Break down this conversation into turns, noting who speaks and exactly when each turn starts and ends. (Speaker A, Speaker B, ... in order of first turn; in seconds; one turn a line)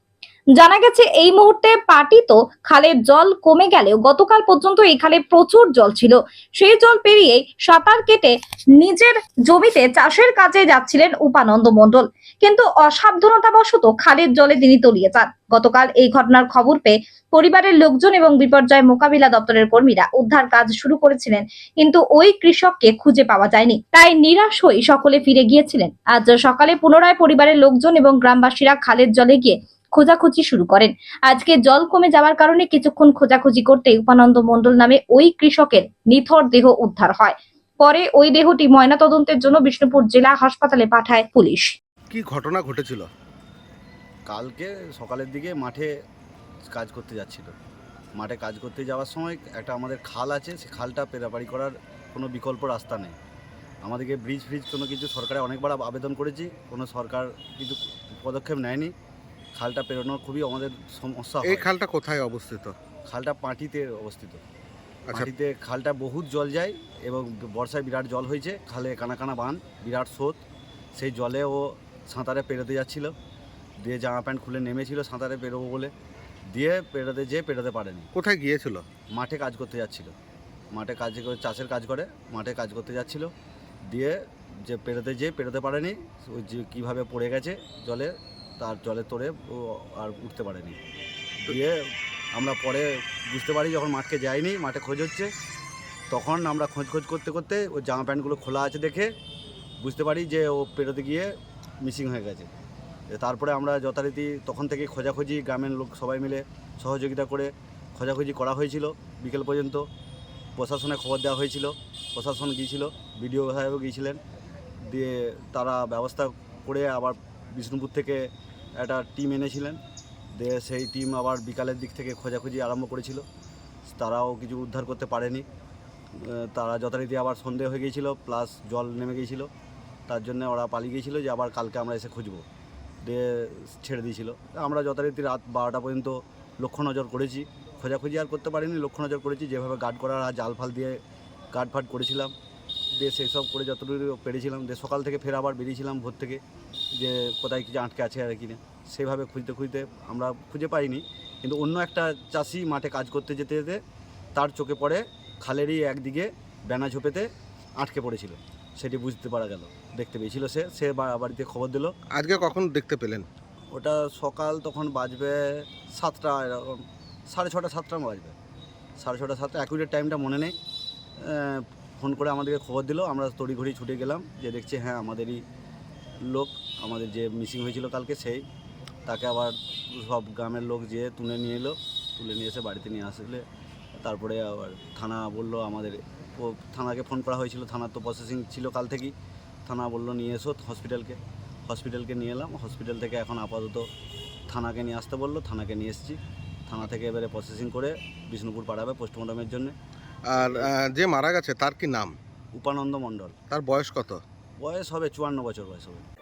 Speaker A: 0.6-41.7
Speaker B: 42.1-43.1
Speaker C: 44.3-45.9
Speaker C: 46.7-47.5
Speaker C: 48.2-53.2
Speaker C: 53.8-58.9
Speaker C: 59.6-61.7
Speaker B: 61.6-62.7
Speaker C: 63.1-64.4
Speaker C: 65.1-70.4
Speaker C: 71.0-73.1
Speaker C: 73.8-75.9
Speaker C: 76.5-78.1
Speaker B: 78.2-78.8
Speaker C: 79.1-80.1
Speaker C: 80.7-83.3
Speaker C: 83.9-90.8
Speaker C: 91.4-91.8
Speaker C: 92.3-95.3
Speaker C: 96.1-99.1
Speaker C: 99.8-101.3
Speaker C: 101.8-102.5
Speaker C: 103.1-109.8
Speaker C: 110.6-114.2
Speaker C: 114.9-118.2
Speaker C: 118.8-119.8
Speaker C: 120.3-123.2
Speaker C: 123.9-125.5
Speaker C: 126.2-129.5
Speaker C: 130.1-132.4
Speaker C: 133.0-141.0
Speaker C: 141.5-142.3
Speaker C: 143.0-146.4
Speaker C: 147.0-153.8
Speaker C: 154.4-157.3
Speaker C: 157.8-161.9
Speaker B: 162.1-163.3
Speaker C: 163.7-168.3
Speaker C: 169.0-170.5
Speaker C: 171.2-175.4
Speaker C: 176.3-178.4
Speaker C: 179.1-183.4
Speaker C: 184.0-189.1
Speaker C: 189.7-193.9
Speaker C: 194.5-199.7
Speaker C: 200.4-200.7
Speaker B: 200.4-202.2
Speaker C: 202.6-203.3
Speaker B: 203.5-204.2
Speaker C: 204.6-206.0